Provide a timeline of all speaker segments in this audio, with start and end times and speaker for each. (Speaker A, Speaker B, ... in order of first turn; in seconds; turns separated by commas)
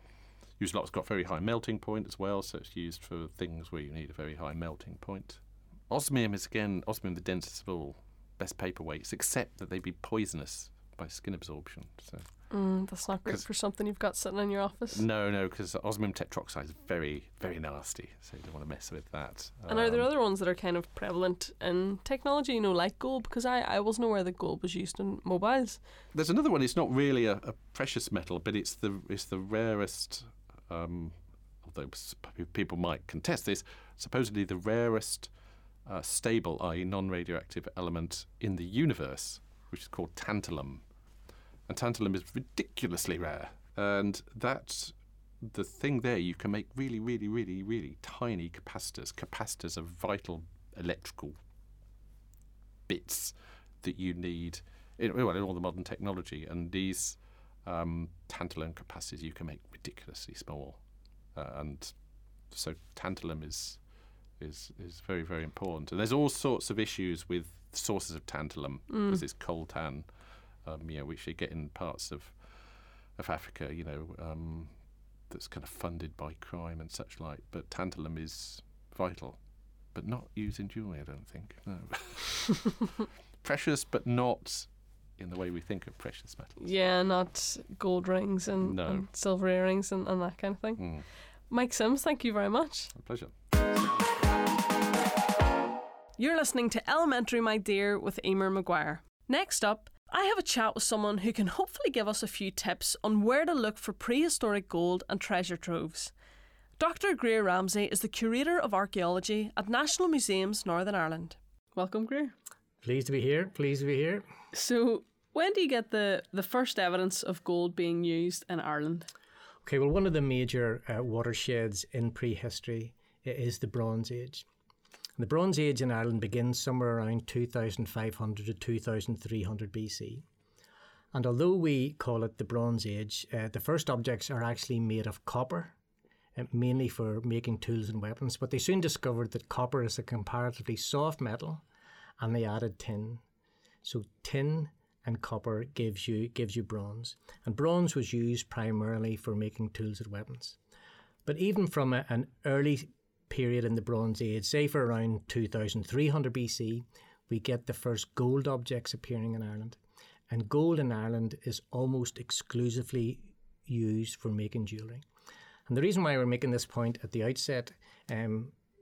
Speaker A: 0.6-12.4, Speaker B: 12.5-15.0, Speaker A: 14.9-20.1, Speaker B: 19.7-25.8, Speaker A: 26.1-35.3, Speaker A: 35.9-40.8, Speaker A: 41.7-51.4, Speaker A: 52.9-60.8, Speaker A: 61.3-61.9, Speaker A: 62.5-63.8, Speaker A: 64.4-70.1, Speaker B: 68.9-69.2, Speaker A: 70.6-72.4, Speaker A: 73.2-74.7, Speaker A: 75.3-79.4, Speaker A: 79.9-82.8, Speaker A: 83.4-86.6, Speaker B: 86.6-90.8, Speaker A: 88.6-89.0, Speaker A: 90.8-91.0, Speaker B: 91.5-92.9, Speaker A: 92.9-93.3, Speaker B: 96.2-106.1, Speaker B: 106.8-112.3, Speaker C: 112.8-114.3, Speaker B: 114.5-119.1, Speaker C: 119.6-124.5, Speaker C: 125.2-130.2, Speaker C: 131.1-135.8, Speaker C: 136.3-141.6, Speaker C: 142.2-143.2, Speaker C: 143.8-150.6, Speaker C: 151.2-159.8, Speaker C: 160.3-165.0, Speaker C: 165.7-168.6